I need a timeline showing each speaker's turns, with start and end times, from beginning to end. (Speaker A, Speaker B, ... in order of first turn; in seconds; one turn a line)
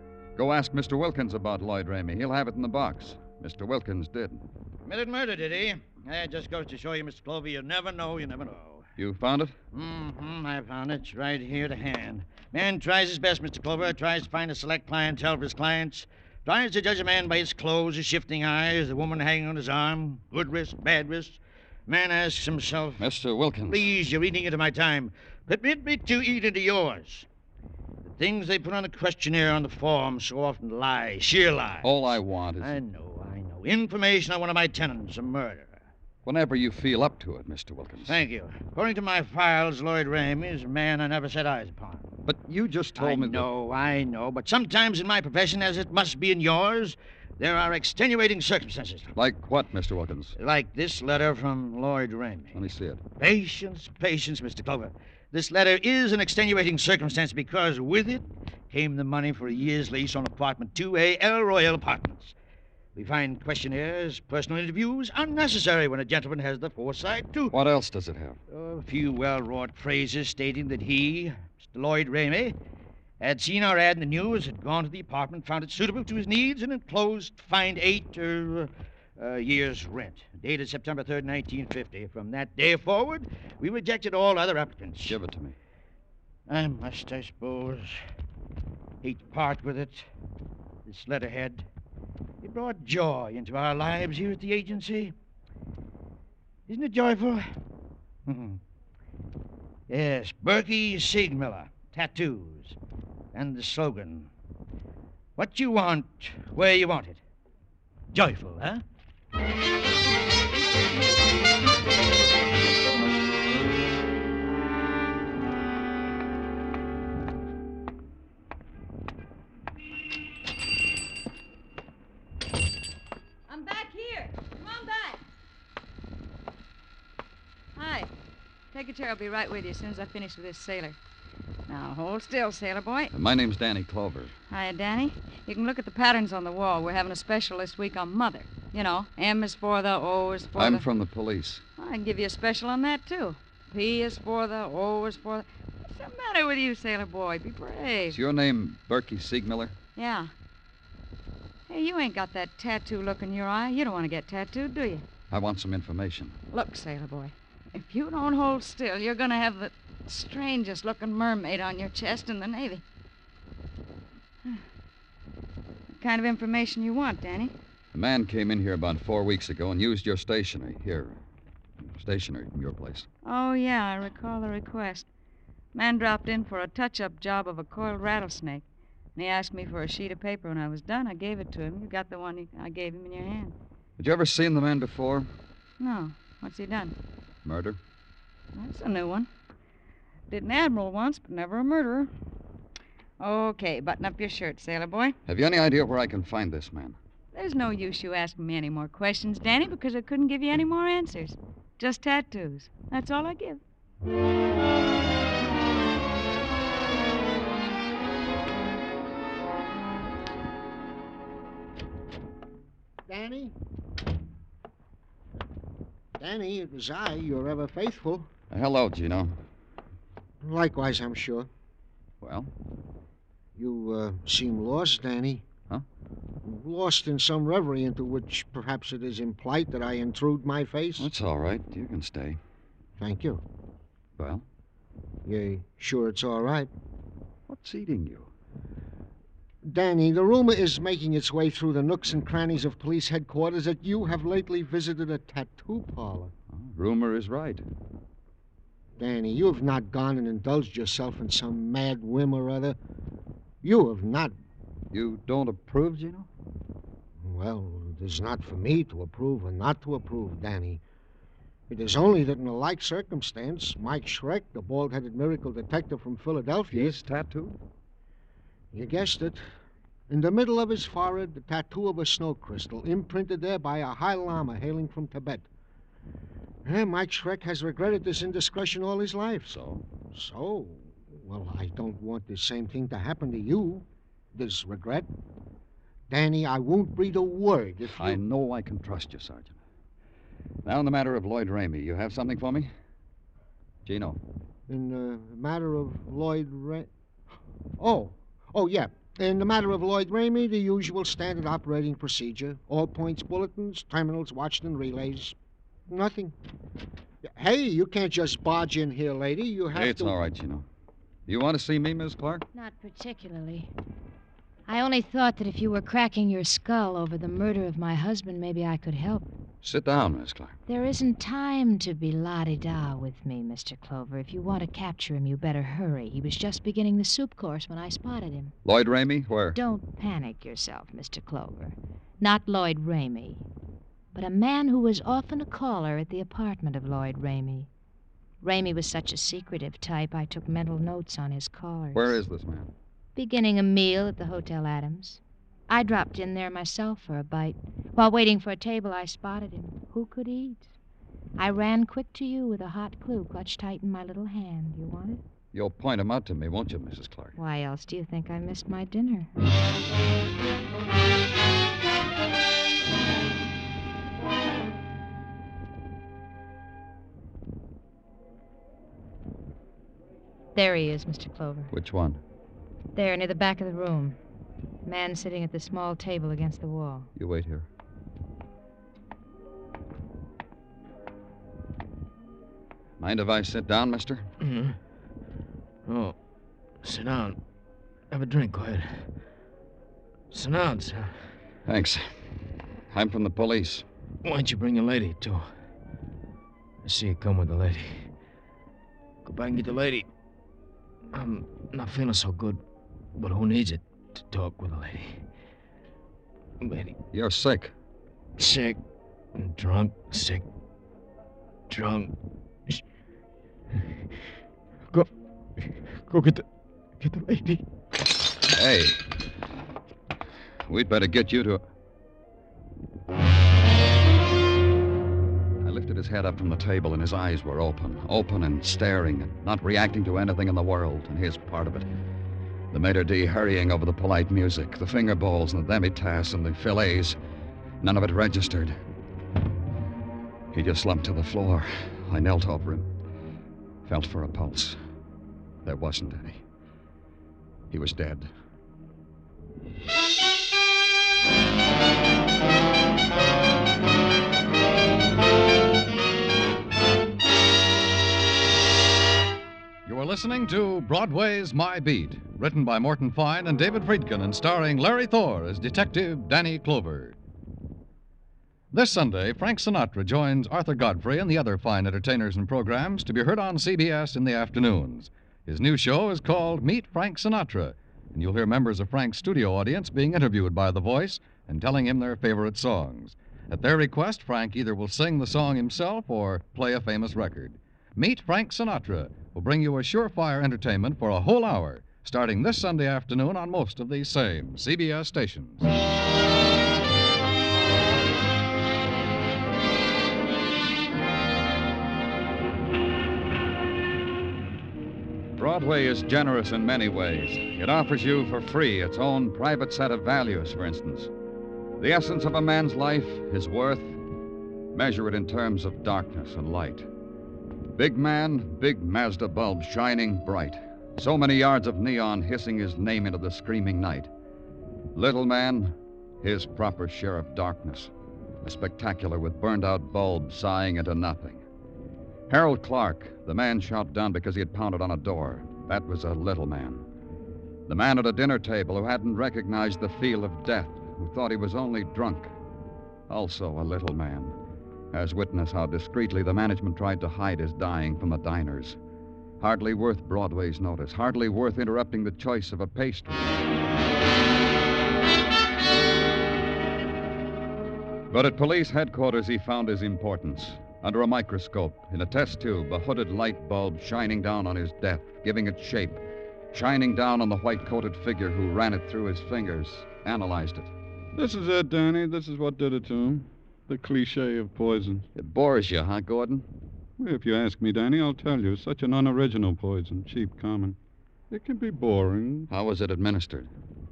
Speaker A: 0.4-4.5
Speaker B: 4.9-8.9
Speaker A: 9.0-9.6
Speaker B: 9.7-23.1
Speaker A: 23.0-23.9
Speaker B: 23.7-27.3
Speaker B: 28.0-32.0
Speaker A: 31.8-32.8
Speaker B: 32.6-35.8
Speaker A: 36.2-38.2
Speaker B: 38.1-42.1
Speaker A: 42.2-43.5
Speaker B: 43.0-49.1
Speaker A: 49.1-50.4
Speaker B: 50.4-52.6
Speaker A: 52.5-53.0
Speaker B: 53.2-62.4
Speaker B: 63.0-67.6
Speaker A: 67.5-68.4
Speaker B: 68.5-72.6
Speaker B: 73.2-85.2
Speaker A: 85.0-85.6
Speaker B: 86.5-88.0
Speaker B: 89.0-90.1
Speaker B: 90.8-91.7
Speaker B: 92.4-95.1
Speaker B: 96.7-97.6
Speaker B: 98.3-98.6
Speaker B: 99.9-102.8
Speaker B: 103.3-104.3
Speaker B: 105.4-107.2
Speaker B: 108.1-108.8
Speaker C: 123.5-125.2
Speaker C: 127.8-128.1
Speaker C: 128.7-131.0
Speaker C: 131.7-133.1
Speaker A: 133.1-134.3
Speaker C: 134.5-140.9
Speaker A: 140.6-141.6
Speaker C: 141.8-148.2
Speaker A: 148.1-149.8
Speaker C: 150.0-150.3
Speaker C: 151.7-155.1
Speaker A: 155.3-156.4
Speaker C: 156.5-162.8
Speaker C: 165.9-167.5
Speaker A: 167.9-171.2
Speaker A: 171.9-173.1
Speaker C: 173.2-175.1
Speaker C: 175.7-183.6
Speaker A: 184.0-185.3
Speaker C: 185.8-187.0
Speaker A: 187.4-187.8
Speaker C: 188.6-189.3
Speaker C: 190.3-192.1
Speaker C: 193.2-195.2
Speaker A: 195.3-197.0
Speaker C: 197.3-203.6
Speaker D: 213.1-213.6
Speaker D: 216.2-218.3
Speaker A: 218.5-219.4
Speaker D: 220.4-221.5
Speaker A: 222.2-222.5
Speaker D: 223.6-225.4
Speaker D: 226.4-231.1
Speaker A: 231.0-232.4
Speaker D: 233.0-233.4
Speaker A: 234.2-234.4
Speaker D: 235.2-236.7
Speaker A: 237.5-238.3
Speaker D: 239.6-246.3
Speaker A: 246.5-247.7
Speaker D: 249.0-252.8
Speaker D: 253.6-254.3
Speaker A: 254.9-256.3
Speaker D: 257.2-260.8
Speaker D: 261.7-267.0
Speaker A: 266.7-267.6
Speaker D: 268.7-269.4
Speaker D: 270.1-275.5
Speaker D: 276.6-279.6
Speaker A: 279.4-279.8
Speaker D: 280.1-285.1
Speaker D: 286.1-288.2
Speaker A: 287.9-289.6
Speaker A: 290.6-292.7
Speaker A: 293.9-294.2
Speaker D: 294.7-296.9
Speaker D: 297.8-305.4
Speaker D: 305.9-306.3
Speaker D: 307.4-310.2
Speaker A: 309.7-310.7
Speaker A: 311.3-312.4
Speaker E: 312.5-313.7
Speaker E: 314.7-319.3
Speaker A: 319.6-320.6
Speaker E: 320.7-328.6
Speaker A: 328.6-329.6
Speaker E: 329.6-333.4
Speaker E: 334.1-337.7
Speaker E: 338.4-342.2
Speaker A: 341.9-342.7
Speaker E: 343.1-350.7
Speaker E: 351.4-355.2
Speaker A: 355.5-357.4
Speaker E: 357.4-359.3
Speaker E: 370.6-371.7
Speaker A: 371.7-372.2
Speaker E: 372.9-374.2
Speaker E: 374.9-377.1
Speaker A: 377.2-377.7
Speaker A: 383.0-384.3
Speaker F: 384.4-384.8
Speaker F: 385.9-386.2
Speaker F: 386.8-387.4
Speaker F: 388.1-389.1
Speaker F: 390.3-391.4
Speaker A: 391.7-392.2
Speaker A: 392.9-393.9
Speaker F: 394.2-395.6
Speaker F: 396.8-398.1
Speaker F: 399.2-400.1
Speaker F: 401.1-402.6
Speaker F: 403.2-405.2
Speaker F: 406.6-407.0
Speaker A: 407.1-407.7
Speaker F: 408.4-408.8
Speaker F: 409.4-410.4
Speaker F: 411.7-412.1
Speaker F: 414.9-416.5
Speaker F: 417.0-417.6
Speaker A: 418.5-419.1
Speaker A: 420.7-421.6
Speaker A: 425.6-431.9
Speaker A: 432.7-437.2
Speaker A: 437.8-438.8
Speaker A: 440.5-442.9
Speaker A: 443.9-444.8
Speaker A: 445.6-446.4
Speaker A: 447.7-448.3
Speaker G: 459.9-467.2
Speaker G: 468.7-495.7
Speaker A: 505.4-511.1
Speaker A: 511.8-514.0
Speaker A: 514.7-516.9
Speaker A: 517.8-524.1
Speaker A: 524.9-531.4
Speaker A: 532.3-536.9
Speaker A: 537.7-542.3
Speaker A: 543.1-544.4
Speaker A: 544.9-548.8
Speaker A: 549.4-553.5
Speaker A: 558.1-570.8
Speaker H: 571.1-575.1
Speaker A: 575.1-576.5
Speaker H: 577.0-580.8
Speaker H: 581.3-582.5
Speaker A: 582.5-583.5